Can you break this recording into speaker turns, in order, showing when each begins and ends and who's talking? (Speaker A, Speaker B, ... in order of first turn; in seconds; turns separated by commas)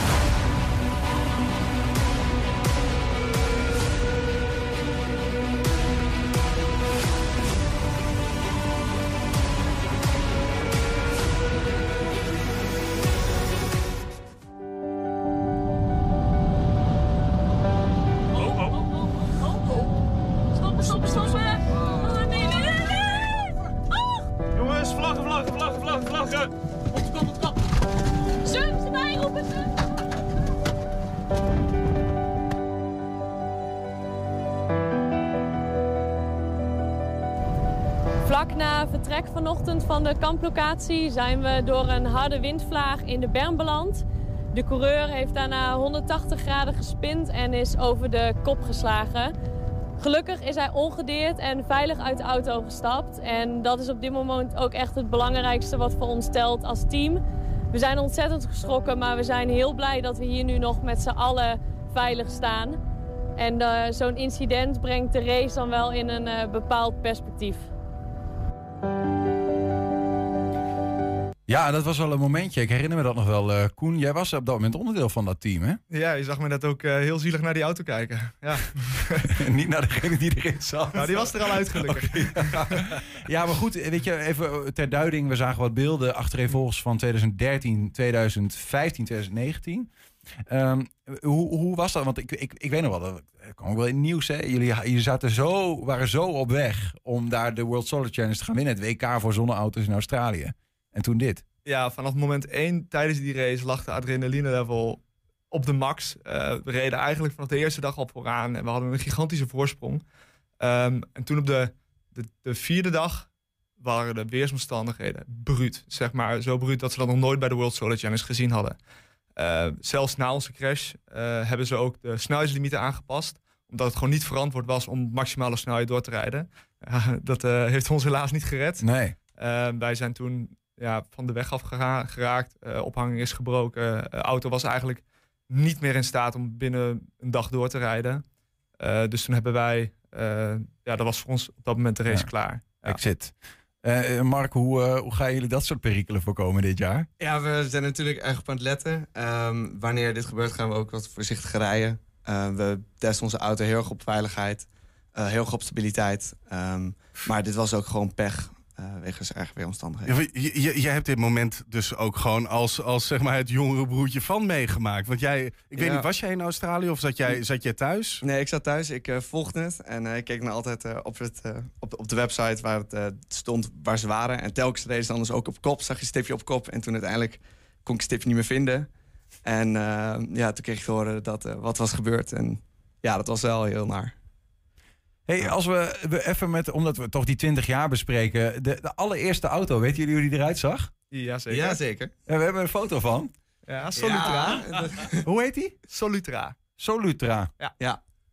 Speaker A: 28.5-28.9, Speaker A: 38.2-49.3, Speaker A: 50.0-62.8, Speaker A: 63.4-67.7, Speaker B: 71.5-75.8, Speaker C: 75.9-79.3, Speaker B: 79.3-89.9, Speaker C: 80.9-83.0, Speaker B: 90.5-101.4, Speaker C: 101.7-110.0, Speaker C: 110.6-113.3, Speaker C: 113.8-118.8, Speaker C: 119.4-138.2, Speaker B: 128.8-129.2, Speaker C: 138.8-143.0, Speaker B: 142.8-147.1, Speaker D: 147.2-160.2, Speaker E: 160.1-168.2, Speaker D: 165.8-166.1, Speaker D: 168.2-178.9, Speaker D: 179.4-184.1, Speaker B: 185.3-190.9, Speaker C: 191.1-191.8, Speaker D: 191.5-192.1, Speaker B: 192.3-193.3, Speaker C: 193.7-195.1, Speaker D: 194.0-195.2, Speaker B: 195.2-195.8, Speaker C: 195.9-196.6, Speaker B: 196.8-197.5